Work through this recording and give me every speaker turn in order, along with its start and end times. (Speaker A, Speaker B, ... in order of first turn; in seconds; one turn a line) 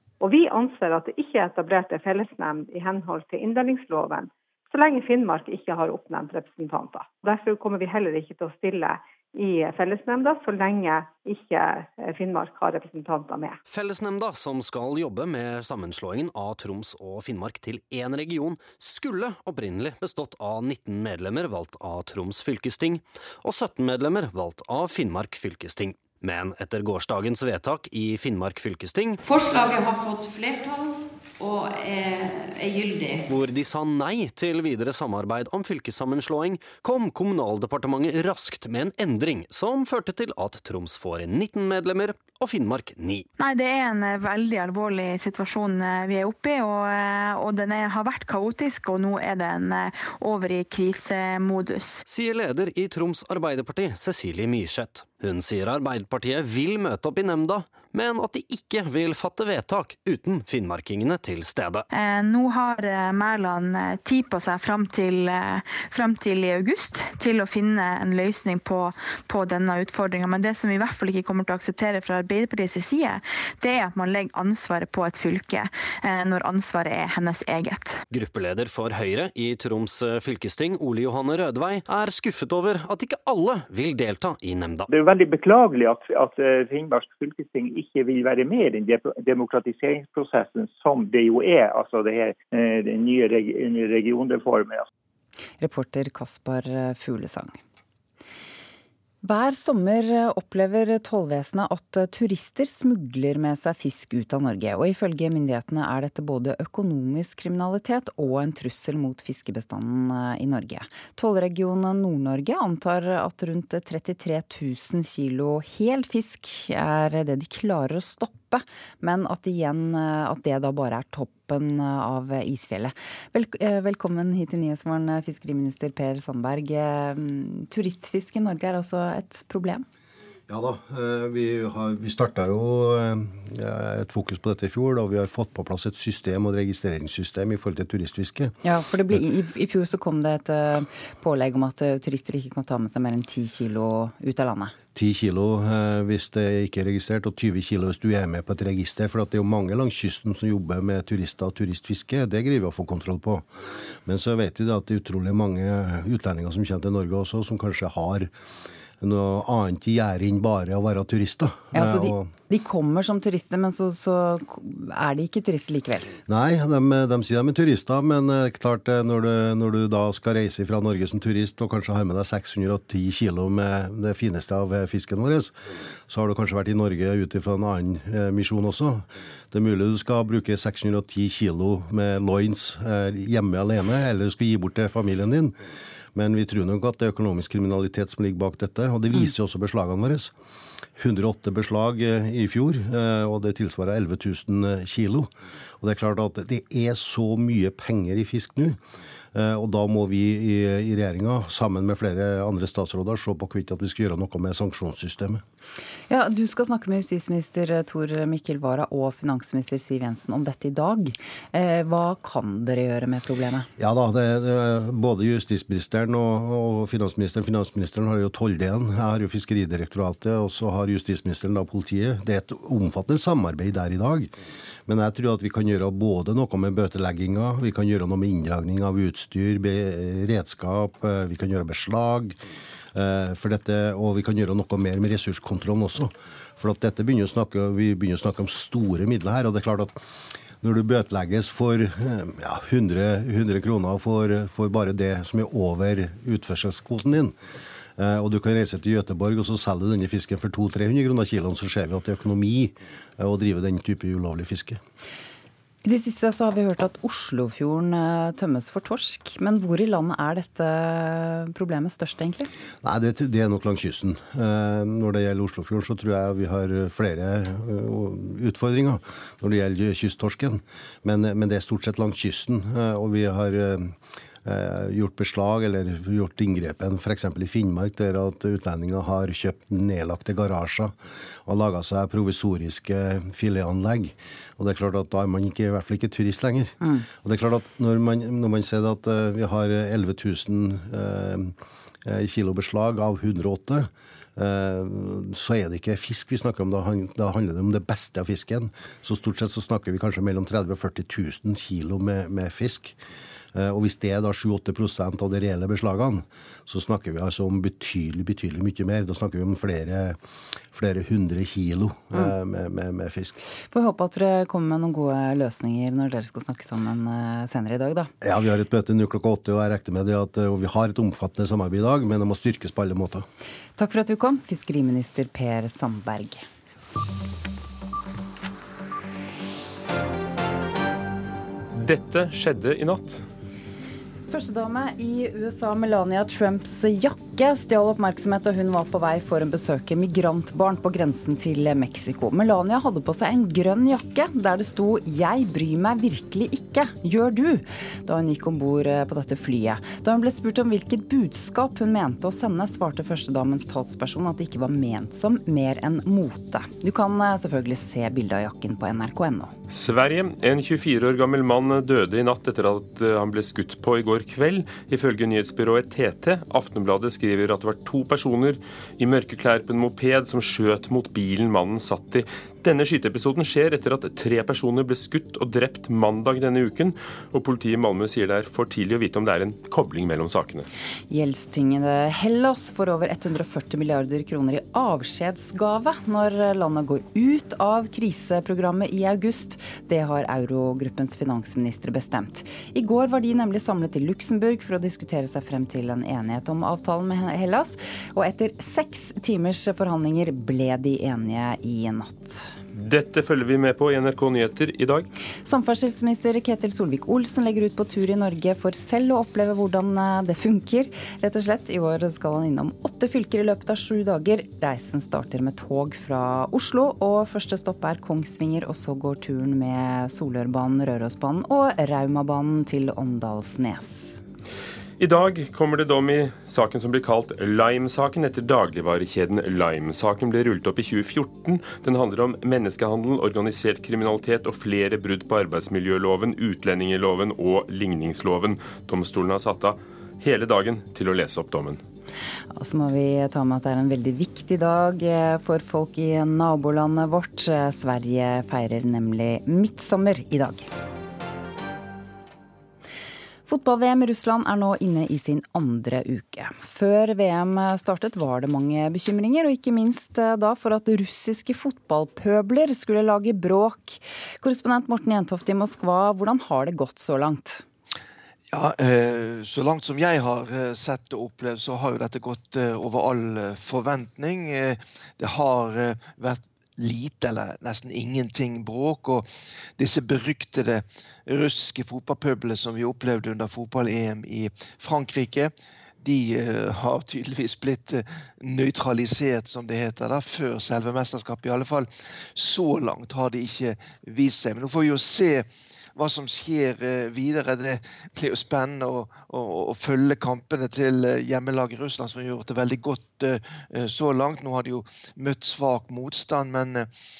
Speaker A: 0.2-13.6
Speaker B: 13.7-29.2
Speaker C: 29.2-33.2
Speaker B: 33.3-43.2
Speaker D: 43.4-52.0
Speaker B: 52.0-61.9
Speaker D: 61.9-78.0
Speaker B: 78.1-84.9
Speaker E: 84.9-94.8
Speaker F: 95.6-97.6
Speaker F: 99.2-129.8
Speaker G: 130.5-138.5
Speaker F: 138.6-144.7
Speaker G: 144.9-153.5
Speaker G: 154.1-158.3
Speaker G: 159.0-162.3
Speaker F: 161.7-166.1
Speaker G: 166.3-175.5
Speaker G: 176.1-185.6
Speaker G: 186.1-190.3
Speaker G: 191.0-198.8
Speaker G: 199.3-205.4
Speaker F: 206.1-213.7
Speaker G: 213.8-224.3
Speaker G: 224.8-232.4
Speaker G: 232.9-240.0
Speaker G: 240.6-247.3
Speaker G: 248.0-254.8
Speaker F: 255.8-262.5
Speaker G: 262.8-302.9
Speaker G: 303.5-310.2
Speaker G: 310.7-313.4
Speaker F: 313.7-318.1
Speaker G: 318.2-323.2
Speaker F: 323.8-326.4
Speaker H: 331.7-333.2
Speaker F: 334.3-359.5
Speaker H: 359.7-380.7
Speaker F: 381.1-402.5
Speaker H: 402.7-405.1
Speaker F: 405.4-424.2
Speaker H: 425.0-441.8
Speaker F: 442.5-450.7
Speaker F: 453.5-467.6
Speaker I: 468.5-479.2
Speaker I: 479.8-506.9